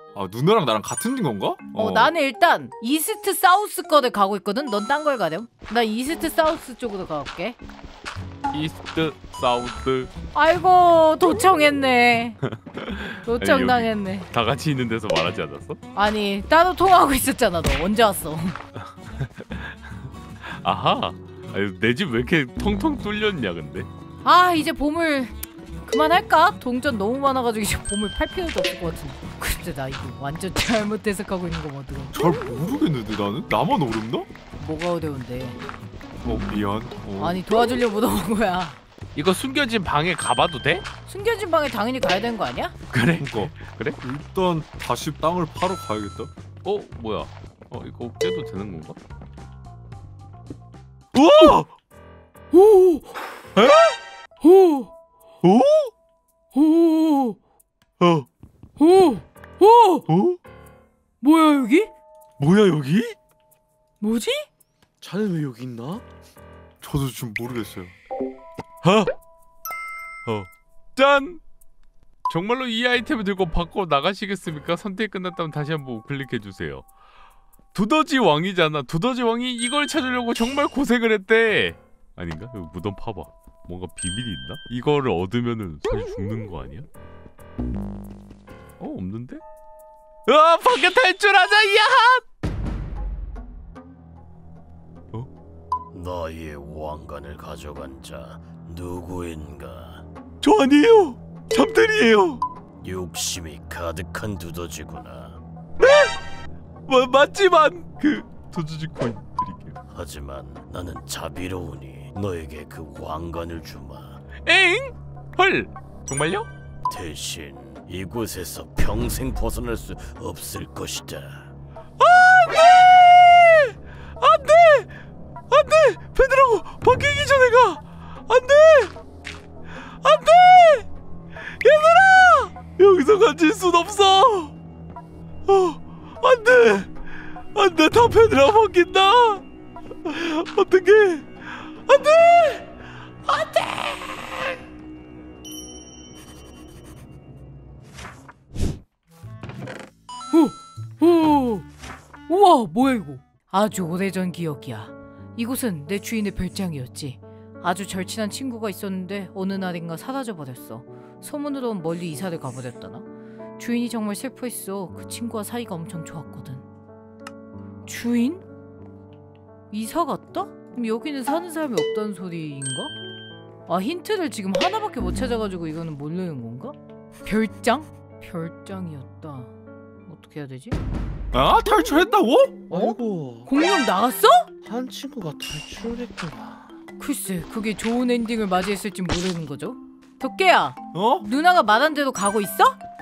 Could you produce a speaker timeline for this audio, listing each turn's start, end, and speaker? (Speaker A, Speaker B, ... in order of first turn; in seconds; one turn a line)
Speaker A: 0.1-2.1
Speaker B: 1.8-7.6
Speaker C: 8.5-10.1
Speaker B: 10.3-12.4
Speaker C: 12.5-15.8
Speaker B: 13.3-14.3
Speaker B: 15.9-18.6
Speaker C: 19.1-19.8
Speaker C: 20.4-23.9
Speaker B: 24.2-25.3
Speaker B: 25.9-32.1
Speaker A: 32.1-34.3
Speaker B: 34.6-35.6
Speaker A: 36.2-37.4
Speaker B: 37.2-38.8
Speaker C: 39.1-40.9
Speaker B: 41.1-42.8
Speaker C: 42.9-44.0
Speaker A: 43.2-46.3
Speaker C: 46.6-49.0
Speaker C: 51.1-51.7
Speaker B: 52.5-53.2
Speaker C: 53.6-53.9
Speaker B: 54.4-54.9
Speaker B: 56.5-57.4
Speaker C: 58.0-58.3
Speaker B: 58.8-60.1
Speaker C: 60.1-60.4
Speaker B: 61.2-61.9
Speaker C: 62.4-63.1
Speaker B: 64.0-64.5
Speaker D: 65.0-66.0
Speaker A: 66.8-67.9
Speaker C: 68.8-69.1
Speaker C: 70.3-71.4
Speaker C: 72.3-76.8
Speaker C: 77.7-86.9
Speaker C: 88.8-89.4
Speaker C: 90.3-92.2
Speaker E: 95.9-100.0
Speaker C: 100.4-102.4
Speaker E: 102.8-105.4
Speaker C: 105.8-106.1
Speaker C: 106.9-109.8
Speaker E: 109.9-114.2
Speaker C: 114.5-116.5
Speaker E: 116.9-121.5
Speaker C: 122.0-124.9
Speaker C: 125.5-128.9
Speaker C: 130.0-130.9
Speaker C: 131.6-134.5
Speaker C: 135.5-136.9
Speaker C: 137.5-139.4
Speaker C: 140.0-142.7
Speaker C: 143.3-144.5
Speaker B: 150.3-151.7
Speaker B: 152.3-163.1
Speaker B: 163.6-166.6
Speaker B: 167.9-168.4
Speaker B: 169.7-172.9
Speaker B: 173.7-179.5
Speaker B: 180.1-180.8
Speaker A: 181.3-183.0
Speaker D: 182.7-183.5
Speaker B: 183.5-184.5
Speaker D: 184.6-186.7
Speaker B: 187.0-192.8
Speaker A: 190.9-191.2